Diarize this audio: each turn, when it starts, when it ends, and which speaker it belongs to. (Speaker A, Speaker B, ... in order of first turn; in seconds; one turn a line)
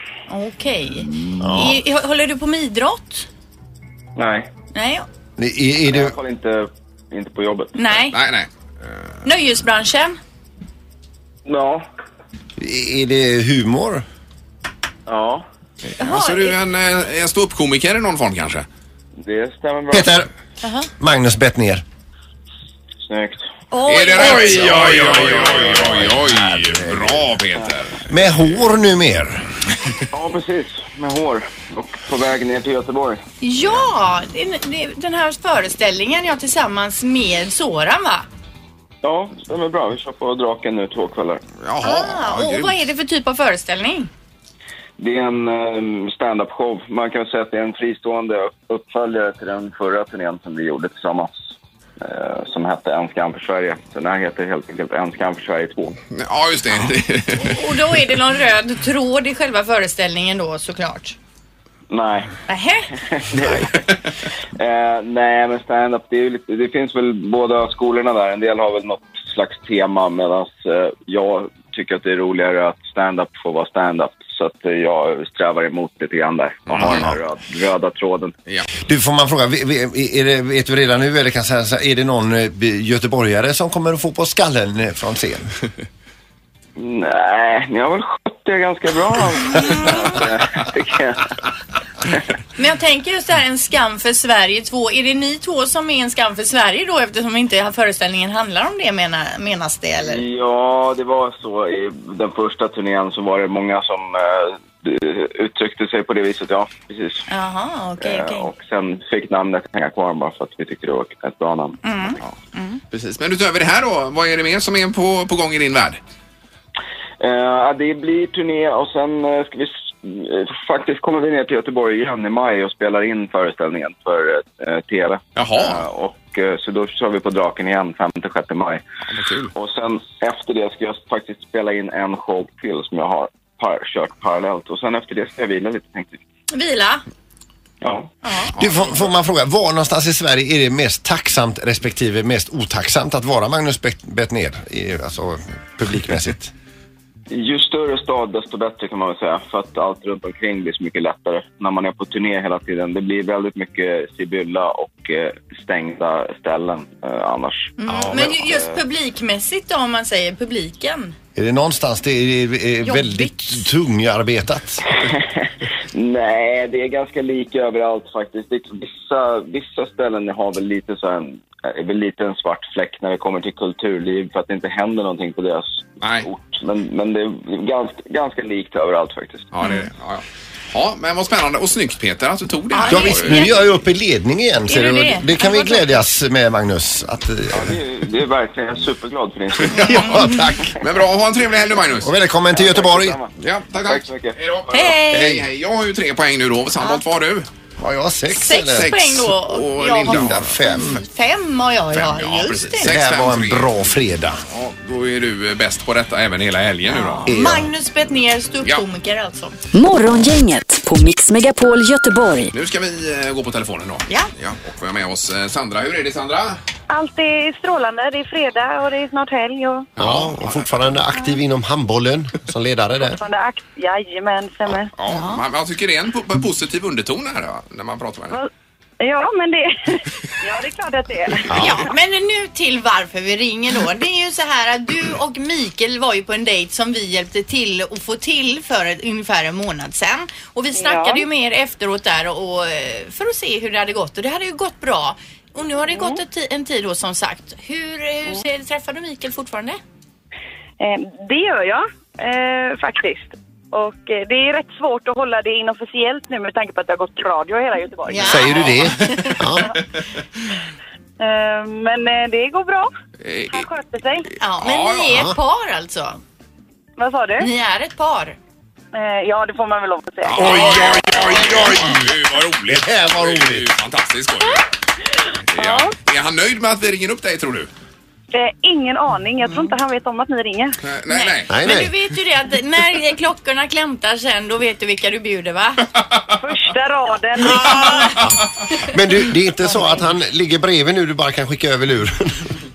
Speaker A: 0.3-3.3
Speaker B: 1.4-1.8
Speaker C: 4.2-4.5
Speaker A: 4.7-5.0
Speaker B: 5.4-6.2
Speaker C: 5.8-7.8
Speaker A: 7.7-8.2
Speaker D: 8.1-8.5
Speaker A: 9.2-10.2
Speaker C: 11.4-11.8
Speaker B: 12.6-14.0
Speaker C: 15.1-15.4
Speaker D: 15.8-18.6
Speaker A: 16.0-16.6
Speaker C: 19.2-20.2
Speaker B: 19.9-20.3
Speaker A: 20.6-20.9
Speaker B: 21.0-21.8
Speaker C: 23.1-23.4
Speaker A: 23.7-25.0
Speaker D: 23.9-28.4
Speaker B: 24.2-27.3
Speaker C: 24.3-24.9
Speaker B: 28.1-29.4
Speaker C: 30.1-33.2
Speaker A: 33.4-38.2
Speaker C: 39.0-41.4
Speaker D: 41.6-42.8
Speaker A: 41.8-44.1
Speaker C: 45.0-51.3
Speaker C: 52.0-56.0
Speaker D: 56.1-57.7
Speaker A: 57.4-61.1
Speaker C: 61.9-62.3
Speaker A: 62.5-62.9
Speaker C: 63.1-63.9
Speaker C: 64.5-78.3
Speaker D: 76.7-77.1
Speaker B: 78.9-85.5
Speaker C: 86.8-91.3
Speaker A: 89.4-90.2
Speaker A: 92.5-100.2
Speaker C: 100.0-107.2
Speaker A: 107.3-108.5
Speaker C: 108.0-111.8
Speaker A: 111.8-112.8
Speaker D: 112.9-116.0
Speaker C: 117.2-128.8
Speaker D: 125.3-125.8
Speaker D: 129.1-129.5
Speaker C: 129.5-136.2
Speaker A: 136.5-137.0
Speaker C: 137.8-138.1
Speaker A: 138.2-138.5
Speaker D: 138.5-139.1
Speaker B: 138.6-146.5
Speaker C: 147.3-158.8
Speaker A: 157.8-161.1
Speaker B: 161.3-164.9
Speaker A: 162.8-163.7
Speaker C: 165.1-179.5
Speaker D: 176.0-176.3
Speaker D: 179.5-183.6
Speaker A: 182.7-183.6
Speaker B: 182.8-187.8
Speaker A: 184.7-186.0
Speaker C: 187.5-190.2
Speaker D: 189.7-192.1
Speaker A: 189.7-190.3
Speaker B: 190.1-190.7
Speaker B: 192.0-193.2
Speaker C: 192.5-193.3
Speaker D: 193.4-197.4
Speaker C: 193.8-194.7
Speaker A: 194.7-195.4
Speaker B: 197.8-198.9
Speaker A: 198.3-202.9
Speaker D: 198.5-201.0
Speaker B: 200.0-201.0
Speaker D: 201.9-203.8
Speaker B: 202.8-204.4
Speaker D: 204.5-207.4
Speaker A: 206.9-209.6
Speaker B: 207.2-207.7
Speaker E: 209.7-212.5
Speaker D: 212.5-216.6
Speaker F: 216.9-219.9
Speaker D: 220.0-220.8
Speaker B: 220.0-223.2
Speaker F: 223.0-224.9
Speaker D: 225.0-228.4
Speaker A: 225.1-225.4
Speaker F: 229.0-231.5
Speaker B: 231.5-231.8
Speaker A: 231.5-249.8
Speaker F: 240.7-241.2
Speaker F: 245.9-246.2
Speaker F: 250.8-258.5
Speaker A: 258.1-259.4
Speaker B: 258.2-259.7
Speaker D: 258.5-258.9
Speaker F: 261.2-262.9
Speaker D: 263.2-263.7
Speaker F: 263.5-264.2
Speaker A: 264.4-266.2
Speaker D: 264.6-265.2
Speaker F: 267.0-267.5
Speaker A: 267.4-268.4
Speaker F: 268.9-271.0
Speaker D: 270.2-274.6
Speaker B: 270.4-272.1
Speaker B: 272.7-273.7
Speaker D: 275.5-277.7
Speaker F: 275.6-275.9
Speaker F: 278.3-280.8
Speaker A: 279.5-279.7
Speaker D: 280.8-281.5
Speaker A: 281.1-285.9
Speaker B: 281.5-281.9
Speaker F: 286.4-288.1
Speaker A: 287.5-288.2
Speaker B: 288.8-292.5
Speaker A: 289.7-290.0